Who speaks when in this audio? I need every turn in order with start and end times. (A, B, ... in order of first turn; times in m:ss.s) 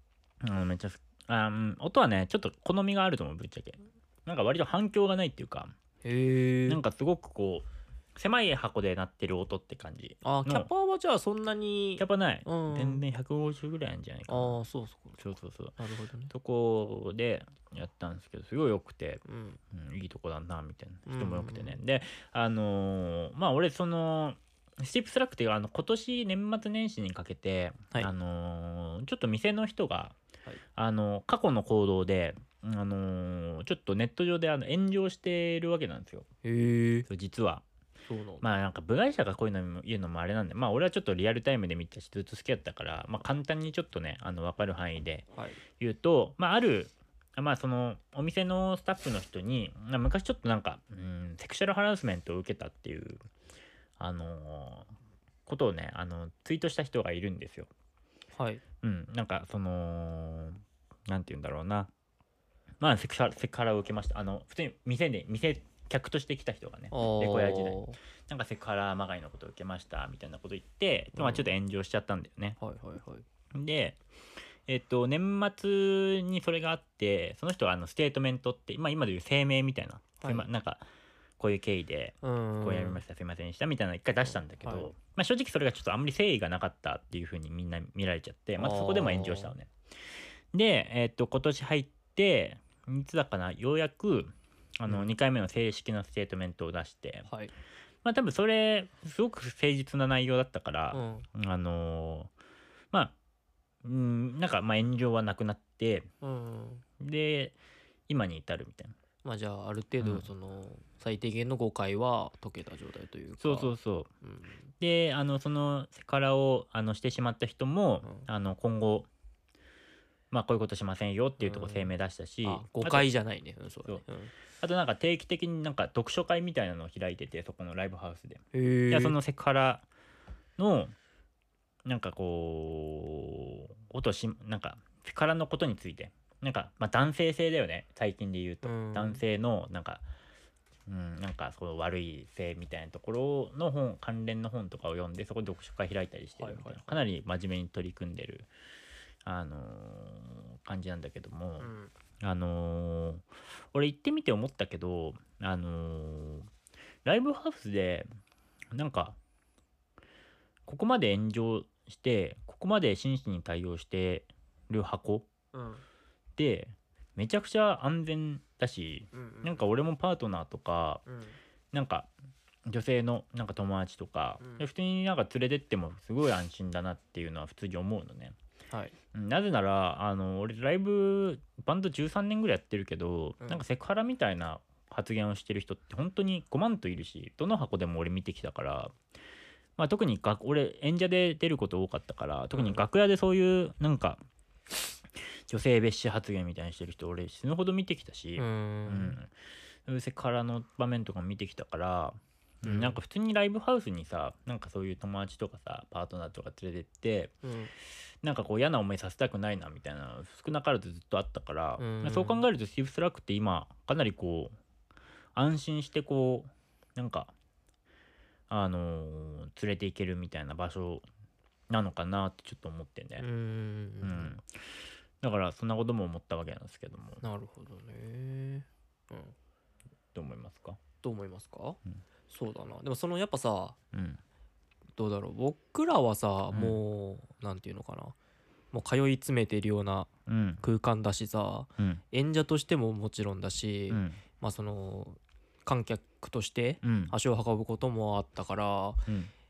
0:00.4-0:05.8 A
0:06.0-0:06.8 B
0:06.7-0:10.7 A
0:10.2-0:13.0 B
0:12.0-0:14.6 A
0:14.3-0:15.2 B
0:15.2-0:15.8 A
0:15.8-0:16.3 B
0:16.3-0:30.2 A
0:19.2-0:19.6 B
0:21.1-0:21.8 B
0:30.8-0:36.3 A
0:36.4-0:37.1 B
0:37.1-0:37.6 A
0:38.1-0:38.4 B
0:38.4-0:45.2 A
0:45.3-0:45.6 B
0:45.8-0:53.2 A
0:54.0-0:54.9 A
0:55.4-0:57.7 A
0:58.4-0:58.6 B
0:58.8-1:01.9 A
1:02.8-1:12.6 A
1:06.9-1:08.0 B
1:11.1-1:11.5 B
1:12.6-1:13.2 B
1:13.5-1:14.0 A
1:14.7-1:20.8 A
1:20.2-1:20.5 B
1:21.4-1:29.7 A
1:22.2-1:23.0 B
1:24.2-1:24.9 B
1:28.6-1:29.5 B
1:30.5-1:37.3 A
1:37.3-1:37.5 B
1:38.0-1:42.3 A
1:40.9-1:41.3 B
1:43.8-1:46.1 A
1:46.2-1:46.8 B
1:47.0-1:47.6 A
1:48.1-1:48.9 A
1:49.2-1:54.6 B
1:50.0-1:50.3 A
1:53.4-1:54.1 A
1:54.8-1:59.1 A
2:00.3-2:03.1 A
2:01.4-2:01.9 B
2:02.4-2:04.3 B
2:04.6-2:09.8 A
2:08.5-2:09.2 B
2:10.6-2:10.9 A
2:11.8-2:20.0 A
2:18.6-2:19.2 B
2:20.9-2:28.5 A
2:26.4-2:27.0 B
2:29.2-2:36.5 A
2:31.6-2:31.9 B
2:37.0-2:38.1 A
2:38.7-2:39.2 A
2:40.6-2:45.3 A
2:45.5-2:45.8 B
2:46.4-2:51.0 A
2:49.1-2:49.6 B
2:51.0-2:51.4 B
2:51.7-2:52.1 A
2:52.7-2:58.4 A
2:54.4-2:54.6 B
2:58.7-2:59.0 B
2:59.1-3:08.9 A
3:09.8-3:14.2 A
3:12.5-3:12.8 B
3:15.5-3:19.3 A
3:18.4-3:19.2 B
3:19.9-3:27.3 A
3:22.6-3:23.0 B
3:27.4-3:27.7 B
3:28.2-3:34.5 A
3:31.8-3:32.4 B
3:35.4-3:37.3 A
3:38.5-3:41.0 A
3:41.7-3:43.2 A
3:43.2-3:44.4 B
3:44.0-3:44.5 A
3:45.2-3:47.2 A
3:47.2-3:49.4 B
3:50.1-3:50.8 A
3:51.0-3:53.8 B
3:53.9-3:54.2 A
3:55.0-3:58.1 B
3:56.5-3:56.8 A
3:58.7-4:00.1 B
4:00.3-4:00.6 A
4:00.6-4:09.1 B
4:03.9-4:04.2 A
4:06.8-4:07.1 A